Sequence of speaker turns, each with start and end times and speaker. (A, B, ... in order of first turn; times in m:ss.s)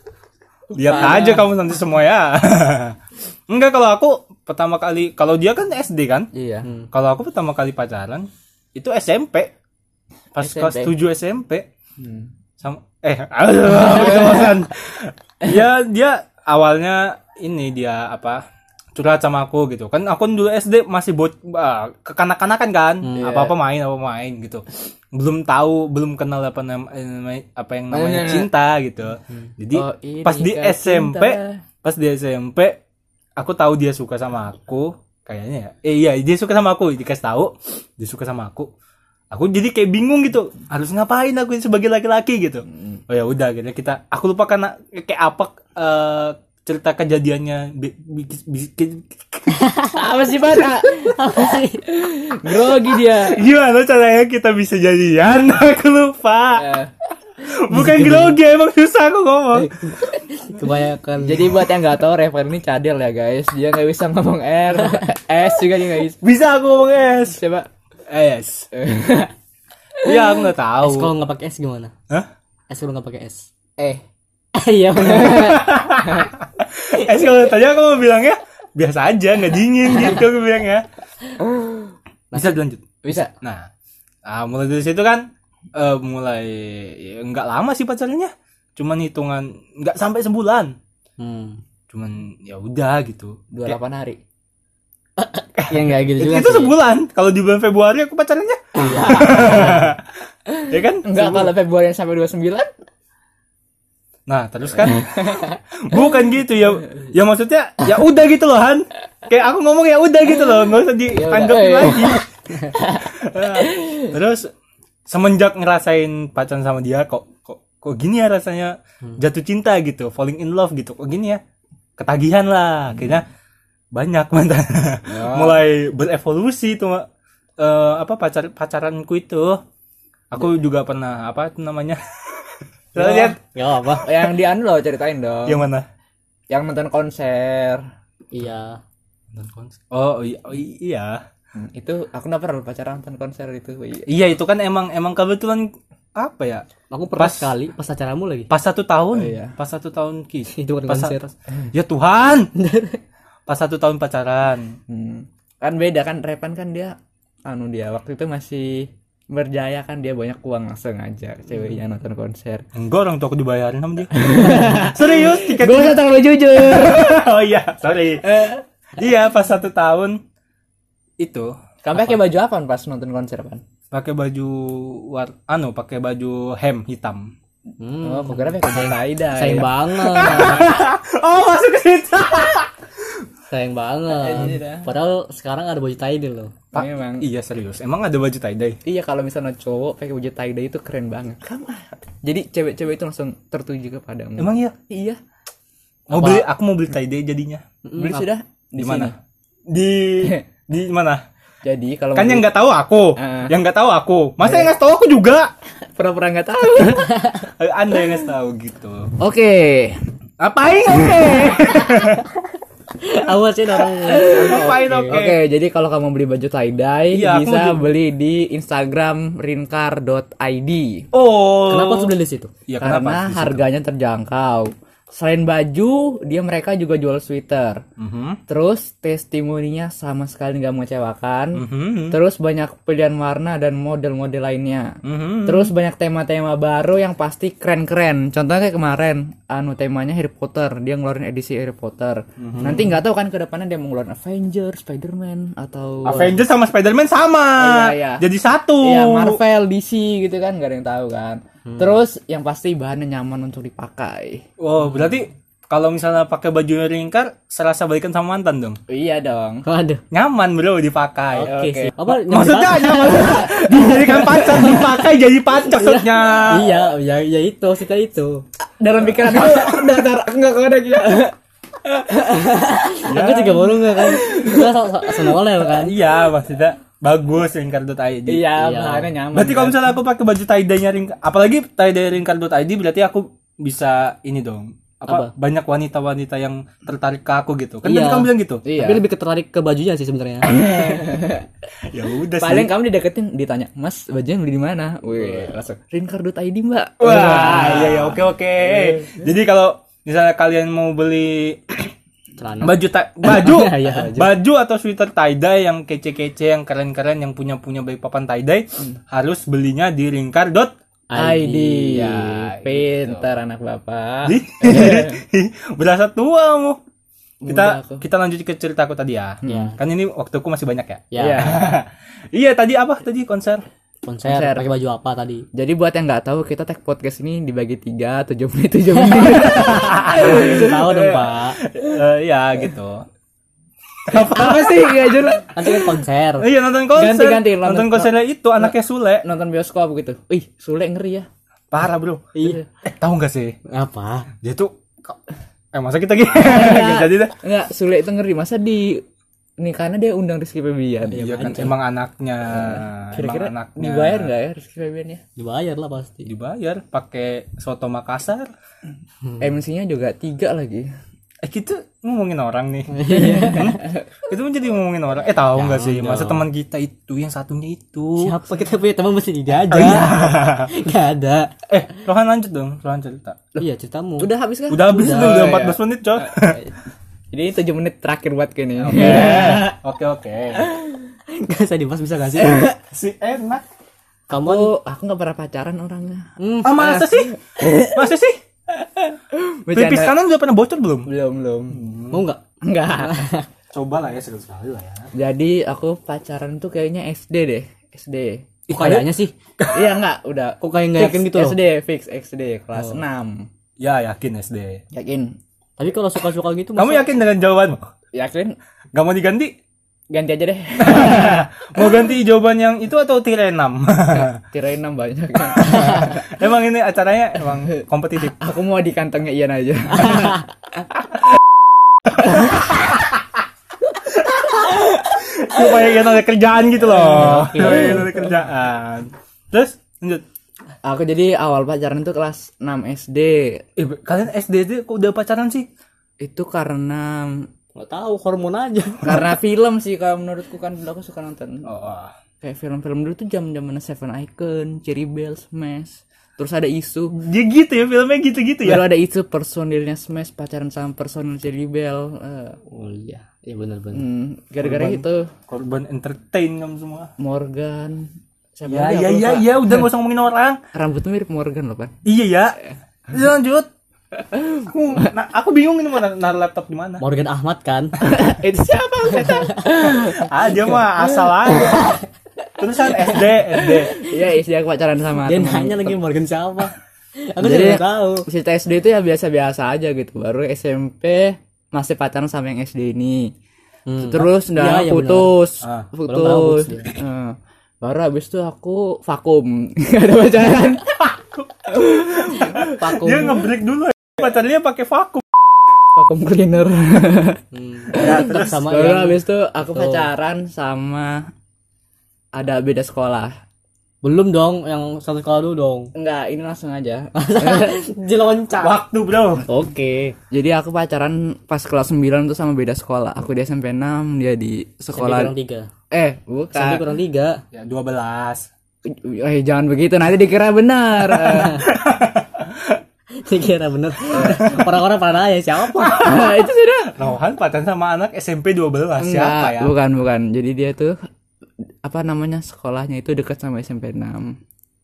0:00.7-0:03.0 A
0:00.8-0:01.4 B
0:03.5-0:06.3 A
0:06.3-0:06.7 B
0:06.6-0:06.9 C
0:06.9-0:09.5 A
0:10.3-0:11.7 A
0:10.4-0:10.9 B
0:12.0-0:12.3 B
0:12.6-0:18.4 A
0:18.9-0:32.8 A
0:23.0-0:23.4 C
0:23.2-0:23.5 B
0:27.9-0:28.5 B
0:29.7-0:31.6 B
0:33.4-0:38.7 A
0:39.3-0:49.6 A
0:49.6-0:49.9 C
0:49.9-0:51.2 B
0:51.0-0:51.8 C
0:51.9-0:53.4 B
0:53.1-0:56.6 A
0:56.6-0:56.9 B
0:57.4-0:59.7 A
0:57.7-0:58.4 C
0:59.6-1:01.7 C
1:01.2-1:06.2 B
1:06.2-1:07.4 A
1:07.2-1:07.7 B
1:08.1-1:08.7 A
1:08.7-1:09.3 B
1:10.0-1:10.4 B
1:10.0-1:11.1 A
1:10.8-1:11.9 C
1:12.7-1:13.5 C
1:14.6-1:15.8 C
1:15.1-1:20.9 A
1:22.3-1:22.6 C
1:22.3-1:23.7 A
1:23.0-1:23.3 B
1:24.2-1:30.8 A
1:31.2-1:31.6 C
1:31.9-1:33.8 A
1:33.5-1:34.2 B
1:35.2-1:36.8 C
1:35.6-1:40.1 A
1:38.8-1:39.9 C
1:40.6-1:41.5 A
1:41.0-1:42.7 B
1:44.3-1:52.3 A
1:45.0-1:45.3 B
1:51.1-1:53.0 B
1:52.9-1:54.5 A
1:53.6-1:54.1 B
1:55.1-2:01.4 A
2:02.0-2:03.2 A
2:03.9-2:07.0 A
2:05.1-2:05.6 B
2:07.6-2:09.6 A
2:10.3-2:13.4 A
2:13.0-2:13.4 B
2:13.5-2:14.0 C
2:14.0-2:15.6 B
2:15.5-2:15.8 A
2:16.5-2:17.8 B
2:18.3-2:18.8 C
2:19.3-2:21.2 A
2:21.6-2:24.1 B
2:24.1-2:27.5 A
2:26.9-2:28.5 C
2:28.5-2:31.1 A
2:29.1-2:29.5 B
2:30.5-2:31.3 C
2:31.7-2:32.5 A
2:32.5-2:33.0 C
2:33.5-2:34.8 A
2:34.9-2:36.9 B
2:37.4-2:42.6 B
2:42.7-2:46.0 A
2:44.1-2:47.2 B
2:46.6-2:50.2 A
2:48.2-2:48.6 B
2:51.2-2:51.5 A
2:51.8-2:53.6 B
2:53.9-2:57.3 A
2:57.8-3:00.7 C
2:58.0-2:59.7 B
3:00.0-3:02.7 A
3:03.5-3:06.5 C
3:04.1-3:04.9 B
3:06.7-3:07.3 B
3:06.7-3:08.8 A
3:08.8-3:15.2 B
3:14.4-3:14.7 A
3:16.1-3:17.6 A
3:16.1-3:16.5 C
3:17.8-3:18.3 C
3:18.0-3:19.1 B
3:18.8-3:19.1 A
3:19.7-3:21.2 A
3:21.6-3:22.5 B
3:22.1-3:25.5 A
3:23.2-3:23.5 B
3:24.4-3:24.7 B
3:26.0-3:27.1 B
3:27.2-3:27.5 C
3:27.4-3:29.1 A
3:29.2-3:30.0 B
3:30.4-3:32.2 A
3:33.0-3:35.2 C
3:34.0-3:41.1 B
3:34.2-3:35.4 A
3:37.1-3:37.9 A
3:41.1-3:42.1 A
3:41.7-3:42.5 C
3:42.7-3:43.6 A
3:42.8-3:47.8 B
3:48.0-3:48.4 A
3:48.5-3:54.9 B
3:51.5-3:52.2 A
3:55.0-3:55.7 A
3:55.4-4:06.4 B
4:02.4-4:02.9 A
4:06.0-4:09.4 A
4:06.0-4:06.4 C
4:07.6-4:08.2 B
4:08.8-4:14.4 B
4:11.6-4:11.9 C
4:14.6-4:18.8 A
4:18.9-4:19.6 B
4:19.6-4:20.0 C
4:20.1-4:21.5 A
4:21.3-4:28.4 C
4:21.4-4:21.9 B
4:22.0-4:26.8 A
4:23.4-4:24.8 B
4:28.8-4:33.0 B
4:32.4-4:35.9 C
4:33.0-4:33.6 A
4:33.9-4:34.7 B
4:35.7-4:38.5 A
4:38.3-4:40.0 B
4:38.6-4:39.1 C
4:39.3-4:48.6 A
4:47.8-4:50.7 C
4:48.6-4:49.0 B
4:50.4-4:51.4 B
4:51.9-4:52.7 A
4:52.4-4:59.0 B
4:57.0-5:01.9 A
5:02.4-5:04.3 C
5:02.6-5:10.7 A
5:11.1-5:12.1 C
5:11.1-5:15.2 B
5:11.9-5:13.3 A
5:14.2-5:16.8 A
5:17.4-5:18.0 B
5:17.5-5:23.6 A
5:19.4-5:19.8 B
5:19.4-5:19.8 C
5:21.1-5:21.5 C
5:21.2-5:21.6 B
5:24.0-5:25.4 C
5:24.2-5:24.7 B
5:25.5-5:30.7 B
5:29.1-5:31.6 C
5:29.4-5:33.0 A
5:34.1-5:35.4 A
5:34.1-5:35.9 B
5:35.5-5:36.4 C
5:36.4-5:39.2 A
5:36.9-5:41.3 B
5:41.7-5:42.3 A
5:42.3-5:42.6 C
5:42.8-5:43.6 A
5:43.7-5:44.3 C
5:44.4-5:45.2 A
5:45.7-5:47.4 A
5:46.4-5:49.0 B
5:49.6-5:51.3 B
5:51.1-5:51.8 C
5:51.1-5:54.3 A
5:52.5-5:55.2 B
5:55.4-5:56.3 C
5:56.2-5:58.5 A
5:59.4-6:00.9 B
6:01.4-6:08.4 A
6:02.9-6:03.8 C
6:03.1-6:03.8 B
6:05.5-6:06.5 C
6:08.2-6:11.5 C
6:09.7-6:10.7 A
6:11.7-6:13.4 A
6:13.6-6:15.6 C
6:14.2-6:16.7 B
6:14.7-6:16.6 A
6:17.3-6:19.8 B
6:18.8-6:20.7 A
6:18.9-6:19.6 C
6:21.3-6:22.7 C
6:22.6-6:23.6 A
6:24.3-6:24.7 C
6:24.4-6:26.2 B
6:26.4-6:26.8 C
6:26.6-6:28.4 A
6:26.8-6:28.1 B
6:28.8-6:30.2 B
6:29.7-6:31.1 A
6:31.0-6:31.8 B
6:31.7-6:32.3 A
6:32.1-6:32.4 C
6:32.6-6:33.2 B
6:33.0-6:33.5 C
6:33.7-6:35.1 A
6:35.1-6:38.5 B
6:38.7-6:39.0 A
6:38.7-6:39.3 C
6:39.6-6:40.0 A
6:39.7-6:43.5 B
6:40.6-6:41.6 C
6:42.7-6:43.0 C
6:43.8-6:44.8 A
6:44.9-6:45.3 B
6:45.8-6:47.2 C
6:46.8-6:47.8 A
6:48.1-6:48.6 B
6:48.9-6:49.5 A
6:50.1-6:51.5 B
6:50.8-6:54.4 A
6:54.1-6:56.4 B
6:55.5-6:58.4 A
6:58.3-7:00.5 B
7:00.1-7:00.4 C
7:02.3-7:02.6 B
7:05.1-7:10.2 A
7:07.0-7:08.1 C
7:10.8-7:13.6 B
7:13.8-7:15.7 A
7:16.2-7:17.4 B
7:17.8-7:19.3 C
7:19.0-7:21.6 B
7:21.6-7:22.1 A
7:22.4-7:27.1 B
7:27.1-7:28.9 A
7:28.6-7:32.6 B
7:32.7-7:34.0 C
7:33.9-7:35.3 B
7:34.6-7:37.1 A
7:37.2-7:39.8 B
7:38.7-7:40.6 A
7:40.7-7:41.9 B
7:42.0-7:42.6 A
7:43.1-7:43.7 A
7:44.6-7:47.0 A
7:47.0-7:48.0 C
7:48.0-7:50.3 B
7:50.0-7:51.8 A
7:52.6-7:54.0 A
7:54.0-7:56.0 B
7:55.2-7:56.7 C
7:57.3-7:58.3 C
7:57.4-8:03.3 B
8:03.9-8:05.3 C
8:04.0-8:10.9 B
8:05.6-8:05.9 A
8:06.0-8:06.9 C
8:11.0-8:15.2 A
8:11.7-8:13.5 B
8:15.9-8:17.4 B
8:17.5-8:20.1 C
8:17.9-8:21.3 B
8:17.9-8:18.4 A
8:22.3-8:23.3 B
8:24.0-8:25.9 C
8:25.9-8:27.7 B
8:27.2-8:28.8 C
8:28.6-8:29.4 A
8:29.4-8:30.2 C
8:30.3-8:35.3 B
8:34.9-8:35.7 C
8:35.9-8:36.8 B
8:36.5-8:37.4 C
8:37.5-8:38.5 A
8:38.9-8:41.7 B
8:41.3-8:42.7 A
8:41.4-8:41.7 C
8:43.2-8:46.0 C
8:44.1-8:44.6 B
8:44.2-8:44.6 A
8:45.7-8:46.4 A
8:45.8-8:47.0 B
8:47.0-8:49.7 A
8:49.0-8:50.9 B
8:51.8-8:54.4 B